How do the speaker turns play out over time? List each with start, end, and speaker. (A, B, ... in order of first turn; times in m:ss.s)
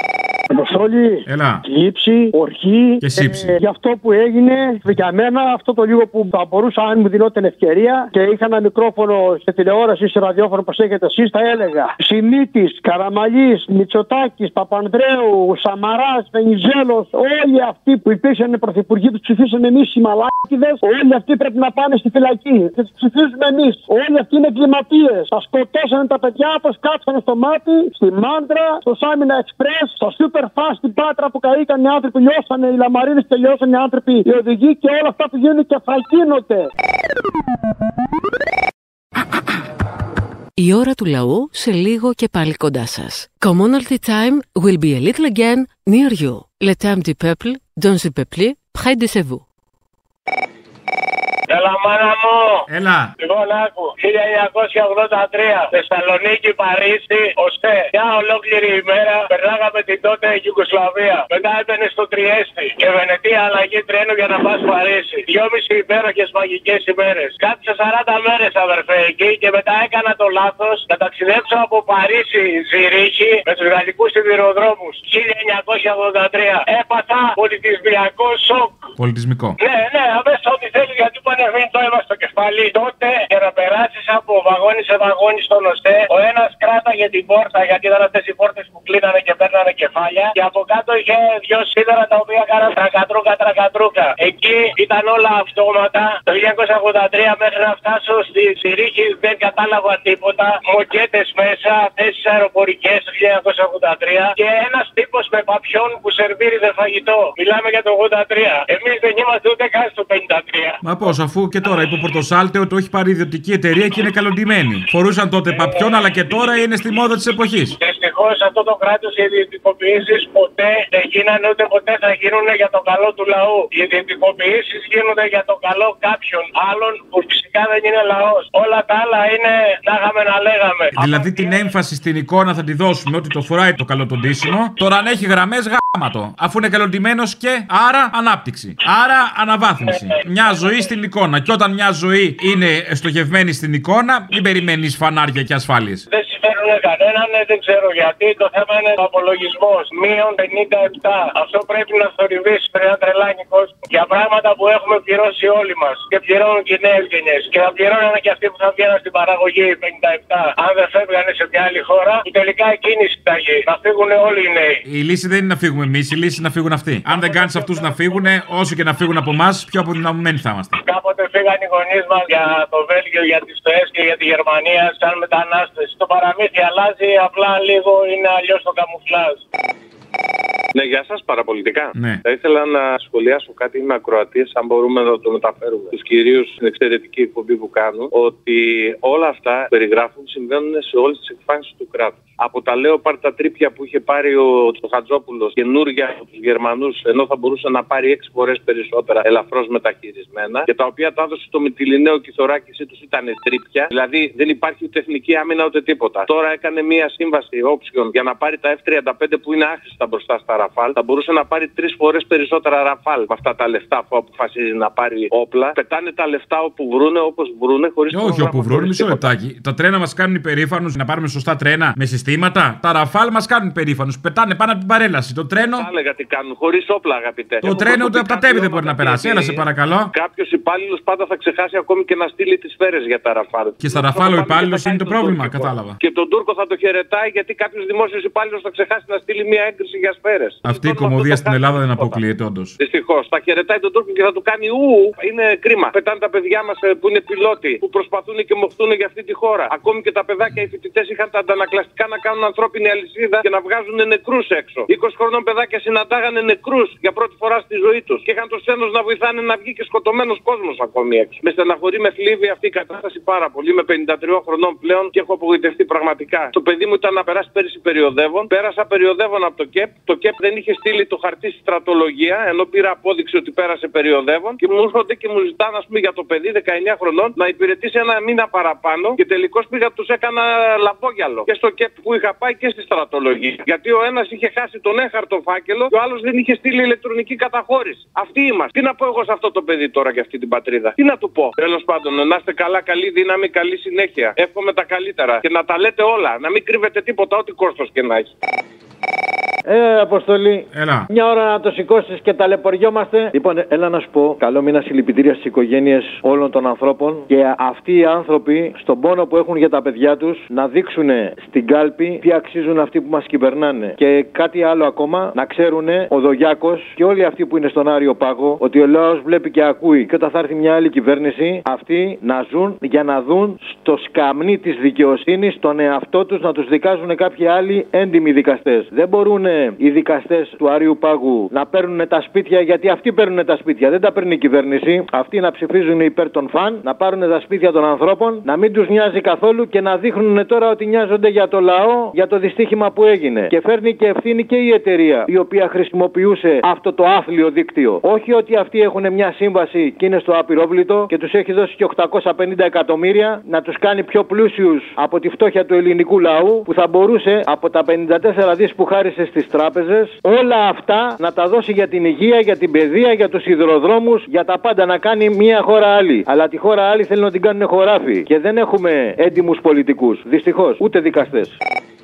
0:00.5-0:36.7 A
0:01.2-0:01.6 B
0:03.0-0:03.5 B
0:40.6-0:49.4 C
0:51.5-0:52.6 D
0:52.7-0:53.1 B
0:53.2-1:18.9 D
1:19.0-1:19.6 B
1:19.6-1:50.8 D
1:50.8-1:57.8 B
1:55.5-1:55.8 D
1:57.8-2:11.6 D
2:10.9-2:26.0 B
2:19.9-2:20.1 D
2:26.1-2:44.8 D
2:44.8-2:50.8 B
2:50.8-2:59.4 D
3:00.7-3:39.3 E
3:01.9-3:02.2 B
3:38.1-3:45.9 B
3:45.8-4:02.2 E
3:47.6-3:50.1 B
3:53.8-3:56.0 B
4:00.6-4:02.8 B
4:02.8-4:58.3 E
4:59.6-6:11.6 F
5:00.7-5:01.1 B